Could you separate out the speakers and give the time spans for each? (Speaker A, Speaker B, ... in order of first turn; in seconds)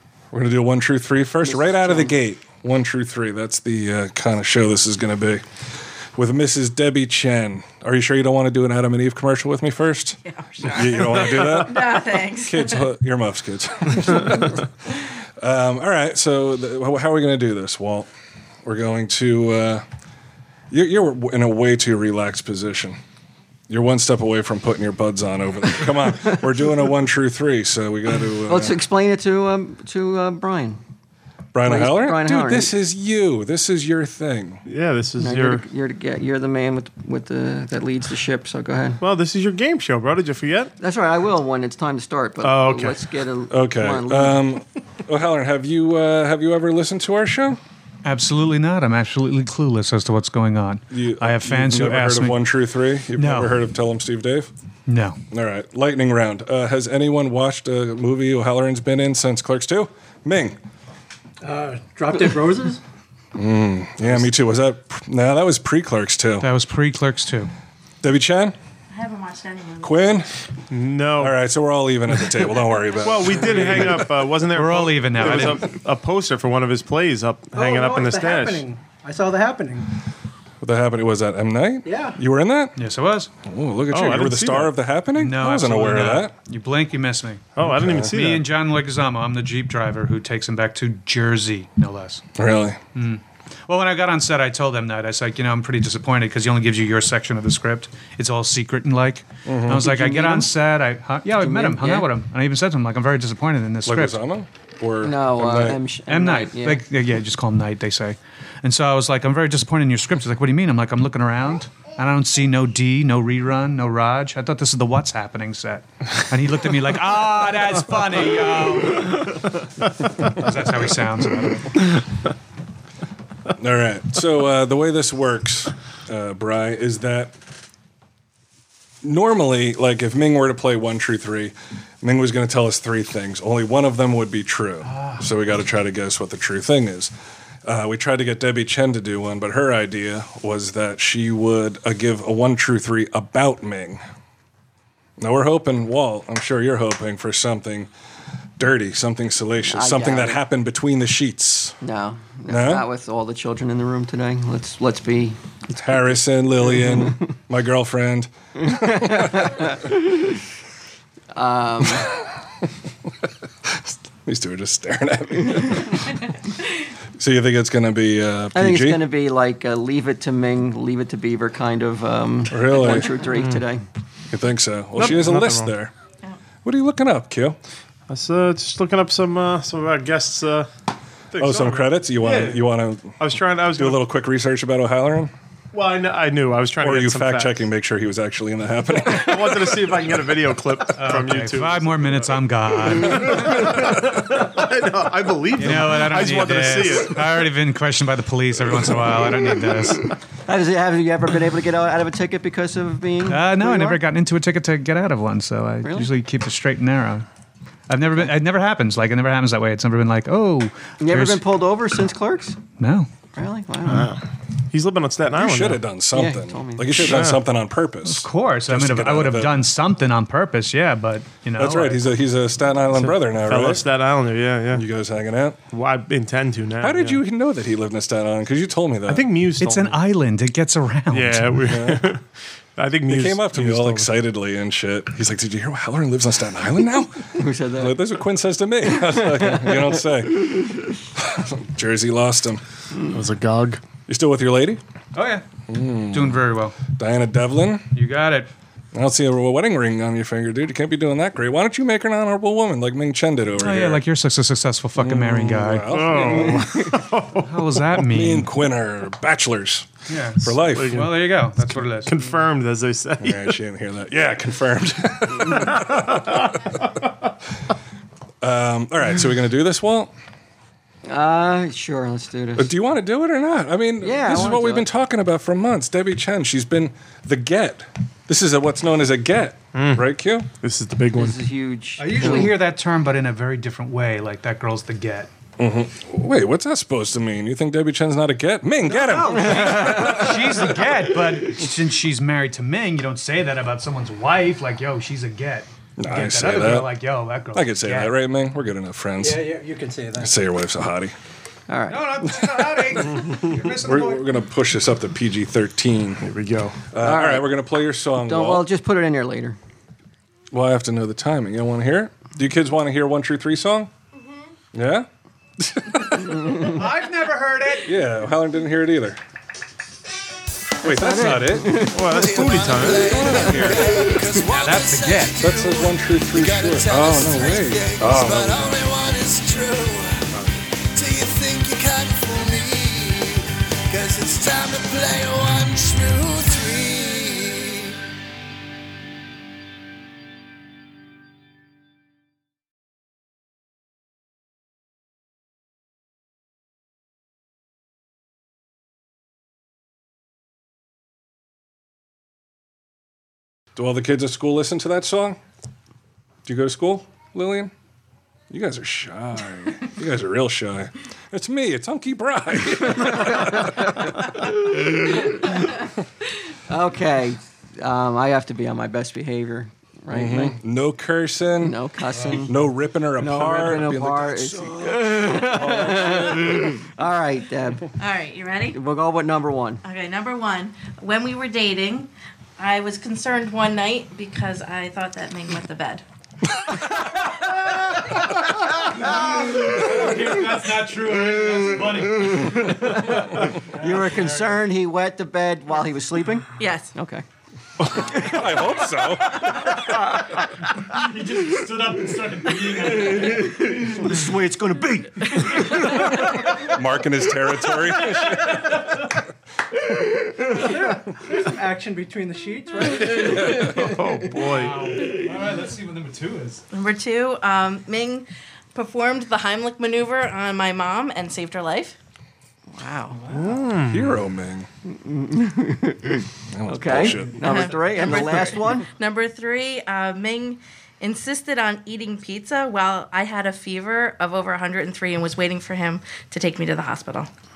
Speaker A: 0.3-5.4, 6.1-18.1, 18.6-19.8, 20.7-23.0, 23.7-28.8, 31.5-34.6, 43.5-47.6, 50.9-54.5, 55.3-60.6, 63.3-66.5, 68.0-68.5, 69.8-70.3, 71.2-74.1, 80.6-82.8, 83.4-86.3, 87.6-88.1, 92.3-92.8, 99.5-100.3, 103.8-105.8, 123.6-127.3, 129.0-137.1, 137.6-144.0, 145.2-147.9, 148.6-151.8, 152.5-152.9, 155.7-159.7, 163.7-166.3, 167.2-169.0, 172.5-173.2, 174.3-175.9, 176.6-177.6, 181.4-185.3, 186.8-189.7, 215.3-219.6, 221.6-223.9, 224.7-225.6, 226.8-229.3, 231.7-232.1, 233.1-242.6, 244.1-244.8, 245.7-247.9, 248.9-254.0, 255.0-256.8, 258.0-261.0, 263.2-266.7, 268.4-270.1, 272.6-280.5, 285.6-290.6, 296.0-299.6, 300.2-301.1, 302.2-306.2, 306.9-308.7, 310.5-313.9, 314.7-315.1, 315.6-316.7, 317.9-319.2, 320.8-321.8, 323.0-324.1, 325.4-328.7, 353.7-355.4, 356.4-357.7, 358.5-364.4, 370.1-371.8, 372.5-376.7, 397.9-399.5, 406.5-408.6, 423.9-424.7, 426.5-427.5
Speaker B: 1.4-2.1, 28.5-30.8, 31.6-32.7, 35.2-39.0, 40.8-44.4, 100.0-100.4, 101.3-102.1, 105.0-106.8, 149.7-150.4, 151.8-155.4, 156.9-157.2, 158.6-160.2, 161.3-162.1, 168.5-173.8, 200.4-204.0, 205.8-206.1, 211.0-212.6, 213.3-214.1, 216.1-217.1, 237.3-238.0, 239.1-240.0, 271.1-272.7, 274.0-274.9, 281.1-282.6, 289.0-290.3, 301.7-302.1, 307.0-307.5, 308.2-309.6, 316.4-316.7, 320.8-322.5, 323.3-324.2, 363.2-365.3, 366.7-370.6, 371.6-372.5, 373.2-377.9, 378.7-379.8, 392.6-397.2, 403.0-405.9, 424.8-428.9
Speaker C: 10.2-12.9, 68.9-70.0, 378.0-378.8, 379.8-386.0, 396.6-396.9, 405.3-406.1, 416.7-422.0, 422.8-423.2, 427.4-437.3
Speaker D: 34.6-35.6, 39.0-40.7, 42.4-43.0, 70.7-71.4, 73.0-78.6, 83.9-84.8, 87.5-88.4, 173.3-173.6, 174.9-175.7, 178.1-180.7, 181.3-184.1, 185.7-187.6, 189.0-192.2, 192.9-197.5, 199.5-199.9, 213.9-215.8, 217.0-217.4, 222.9-224.8, 225.7-227.2, 229.1-230.0, 231.1-234.2, 243.1-243.8, 255.9-257.9, 260.7-263.6, 279.7-280.1, 280.6-281.4, 306.2-306.8, 321.8-323.6, 413.6-414.9, 423.3-424.2
Speaker E: 48.0-52.4, 53.1-53.6, 54.9-55.2, 66.4-67.5, 74.4-75.7, 82.8-83.3, 85.2-92.2, 92.9-104.2, 106.1-119.5, 120.2-121.9, 134.8-135.2, 190.9-193.7, 195.5-200.1, 203.2-207.2, 207.9-211.4, 212.8-213.1, 218.0-222.1, 229.5-231.7, 245.1-245.5, 246.1-246.8, 247.9-248.5, 253.6-256.3, 257.4-258.5, 260.1-262.2, 282.0-285.3, 288.9-298.1, 301.9-304.3, 316.6-317.9, 324.5-325.4, 372.1-372.4, 388.7-394.6, 400.8-403.7, 414.4-416.6, 423.1-423.8, 426.9-428.3
Speaker F: 61.4-62.8, 77.5-79.9, 81.8-82.2, 299.2-300.4, 410.4-413.9
Speaker G: 322.0-330.4, 330.9-338.0